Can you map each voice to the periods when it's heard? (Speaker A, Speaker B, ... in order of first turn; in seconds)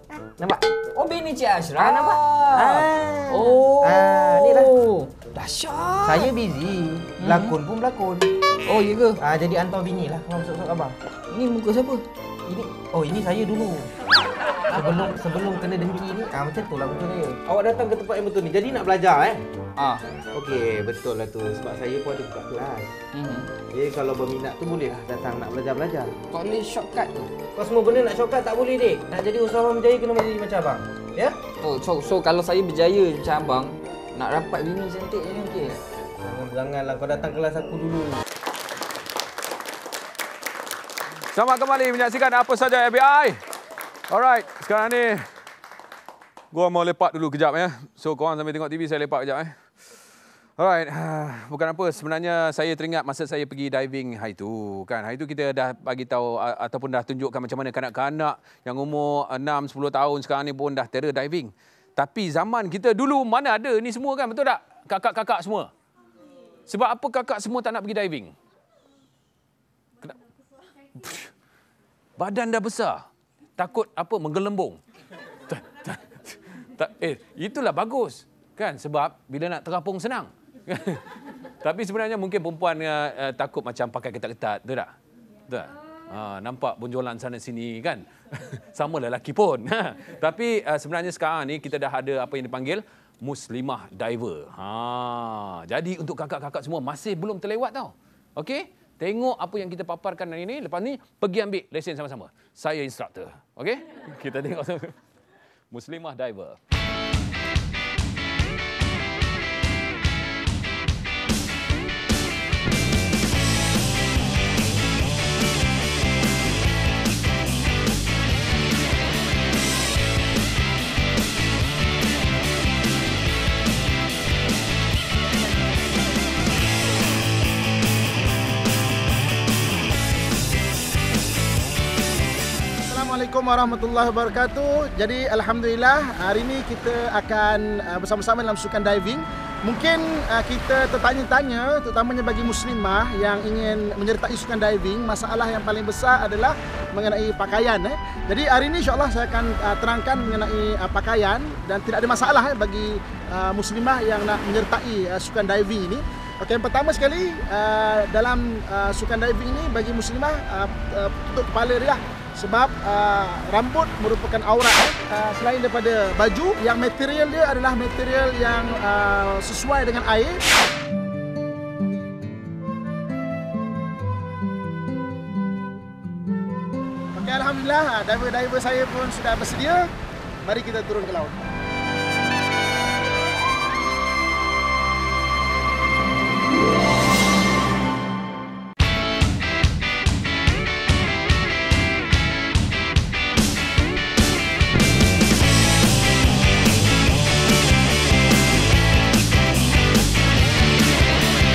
Speaker A: 0.4-6.3, 7.2-7.5, 8.7-9.2, 11.3-12.0, 19.8-20.0, 23.1-23.5, 26.3-27.3, 31.6-35.8
Speaker B: 1.8-4.7, 6.0-8.3, 9.2-10.9, 12.5-13.9, 14.7-19.4, 20.3-22.9, 23.7-26.1, 27.6-31.4, 36.2-38.2
Speaker C: 41.3-43.4, 44.1-45.3, 46.5-49.5, 50.6-65.7, 66.7-68.3, 71.0-71.3, 72.2-73.0, 73.6-74.8, 75.5-81.1, 81.6-84.9, 85.5-105.0, 105.7-106.6
Speaker D: 132.9-170.4, 177.1-179.9, 180.4-181.4